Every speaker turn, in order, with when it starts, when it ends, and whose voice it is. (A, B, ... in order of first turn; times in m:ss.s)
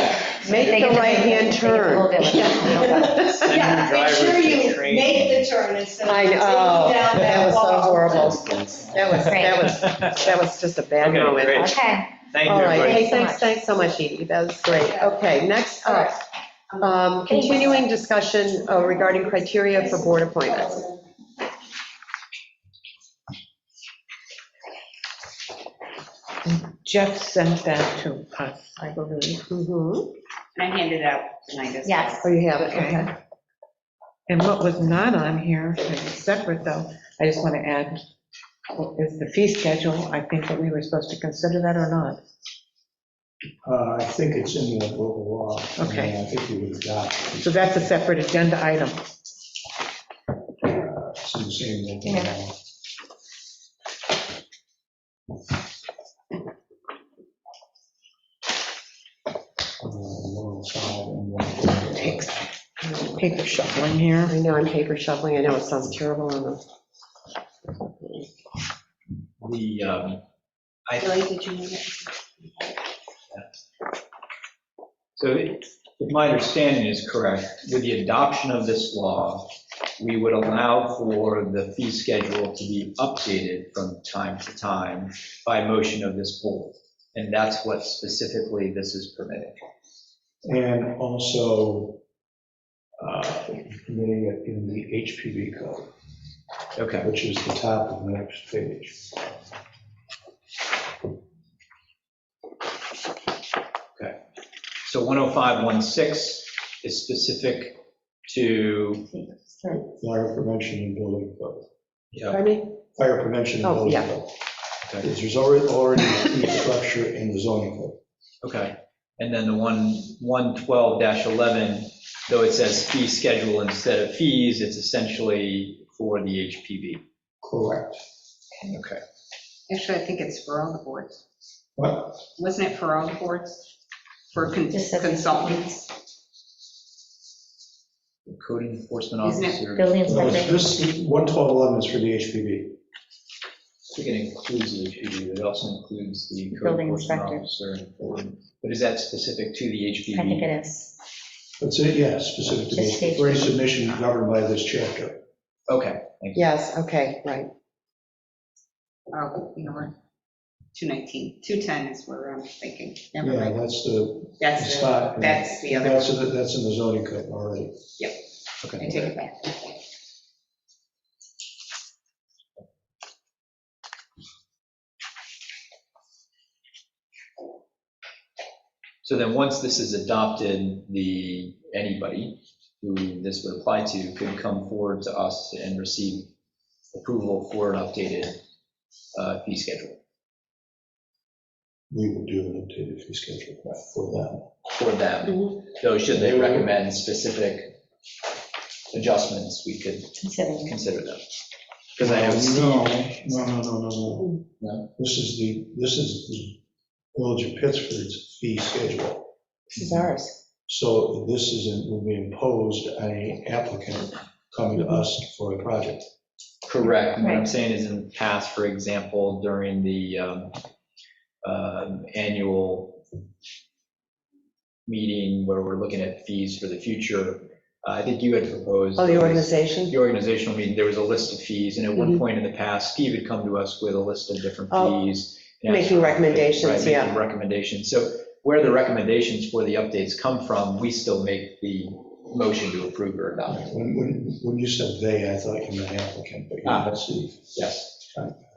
0:00.4-0:03.7 A
0:00.4-0:01.0 B
0:00.5-0:03.0 C
0:02.4-0:08.8 B
0:03.3-0:05.5 D
0:06.0-0:11.8 A
0:08.5-0:10.2 D
0:09.3-0:09.7 C
0:11.0-0:13.1 D
0:11.3-0:12.1 C
0:12.4-0:16.1 A
0:12.8-0:13.5 C
0:14.6-0:15.3 B
0:15.8-0:16.2 B
0:16.7-0:21.0 B
0:16.8-0:20.8 A
0:17.3-0:17.7 C
0:26.5-0:29.5 E
0:29.5-0:30.1 A
0:30.6-0:33.1 F
0:31.8-0:32.1 C
0:32.2-0:32.9 A
0:32.7-0:33.0 E
0:34.3-0:38.0 E
0:38.7-0:42.2 E
0:43.6-0:47.9 G
0:45.8-0:46.1 E
0:47.4-0:49.0 E
0:50.6-0:52.6 G
0:52.0-0:52.3 C
0:59.8-1:02.4 G
1:02.8-1:03.5 A
1:03.2-1:04.3 E
1:04.3-1:06.6 A
1:07.7-1:08.3 A
1:09.4-1:10.2 D
1:10.9-1:11.2 D
1:11.0-1:12.7 F
1:15.2-1:29.6 D
1:30.4-1:32.0 G
1:33.0-1:35.9 G
1:36.8-1:37.1 D
1:37.0-1:39.1 G
1:44.8-1:49.1 D
1:49.1-1:49.9 C
1:49.9-1:51.7 G
1:52.1-1:52.4 D
1:52.3-1:52.7 A
1:52.9-1:54.3 G
1:53.6-1:54.1 A
1:55.0-1:58.0 G
1:58.4-2:07.0 D
2:07.4-2:08.0 G
2:08.7-2:09.0 D
2:09.7-2:11.2 F
2:11.8-2:12.2 G
2:12.4-2:13.7 F
2:14.3-2:15.8 F
2:14.7-2:15.9 C
2:18.3-2:20.0 D
2:19.2-2:19.7 F
2:19.7-2:20.6 C
2:20.0-2:22.8 G
2:23.9-2:30.5 D
2:26.5-2:27.5 C
2:30.1-2:31.0 C
2:31.6-2:35.2 G
2:32.7-2:33.7 C
2:35.7-2:36.5 D
2:36.4-2:37.5 A
2:39.1-2:39.9 F
2:40.7-2:43.6 F
2:43.2-2:47.8 G
2:44.4-2:46.1 F
2:48.6-2:48.9 D
2:48.8-2:49.8 F
2:59.0-3:06.3 D
3:06.9-3:08.4 D
3:09.1-3:10.0 D
3:11.9-3:14.5 G
3:14.7-3:17.8 D
3:16.1-3:16.7 G
3:18.9-3:21.2 D
3:20.2-3:20.8 C
3:22.0-3:23.4 D
3:22.0-3:24.4 G
3:24.6-3:24.9 D
3:24.9-3:26.6 G
3:27.1-3:30.2 G
3:29.8-3:30.3 A
3:30.7-3:36.1 G
3:36.6-3:40.6 D
3:37.2-3:37.4 C
3:41.4-3:43.0 D
3:44.9-4:03.6 D
3:49.0-3:50.0 A
3:54.7-3:55.0 A
3:55.7-3:57.1 A
4:03.5-4:07.5 G
4:06.6-4:07.0 D
4:07.5-4:08.1 D
4:08.1-4:08.4 G